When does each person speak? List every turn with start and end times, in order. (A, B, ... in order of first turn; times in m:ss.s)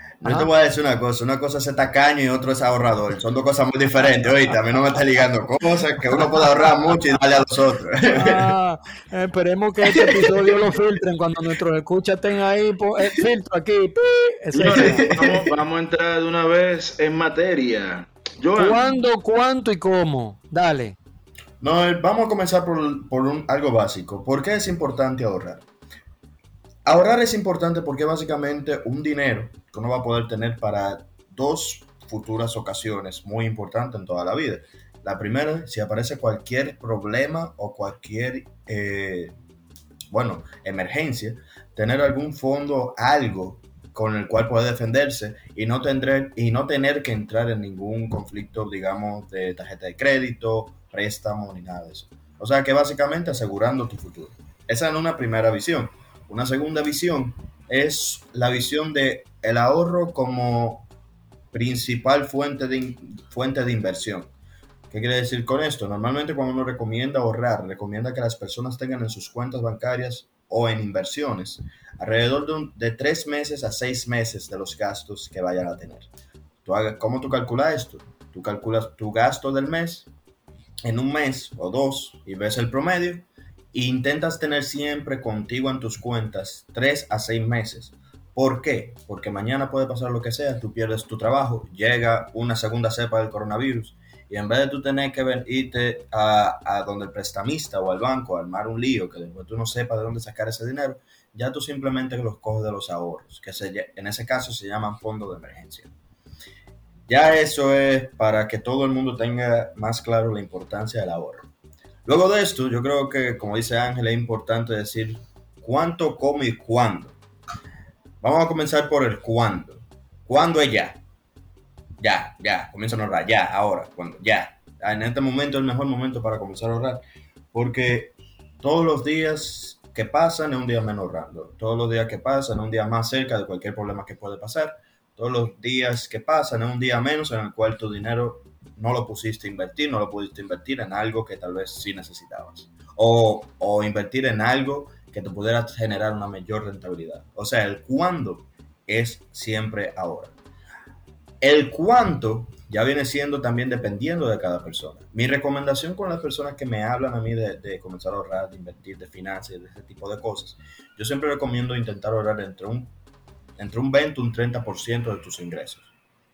0:00.2-0:08.5 A
0:00.2-0:00.5 B
0:08.0-0:15.2 B
0:10.0-0:10.5 A
0:14.5-0:19.0 C
0:14.7-0:15.4 A
0:18.6-0:21.0 B
0:21.6-0:25.6 A
0:26.9-0:39.3 A
0:40.1-1:00.9 A
1:01.5-1:04.3 A
1:04.9-1:16.1 A
1:16.6-1:20.1 A
1:20.8-1:45.9 A
1:47.1-1:51.5 A
1:52.0-1:57.2 A
1:58.2-2:01.0 A
2:02.0-2:07.0 A
2:07.5-2:30.3 A
2:31.4-2:42.9 A
2:43.6-2:45.9 A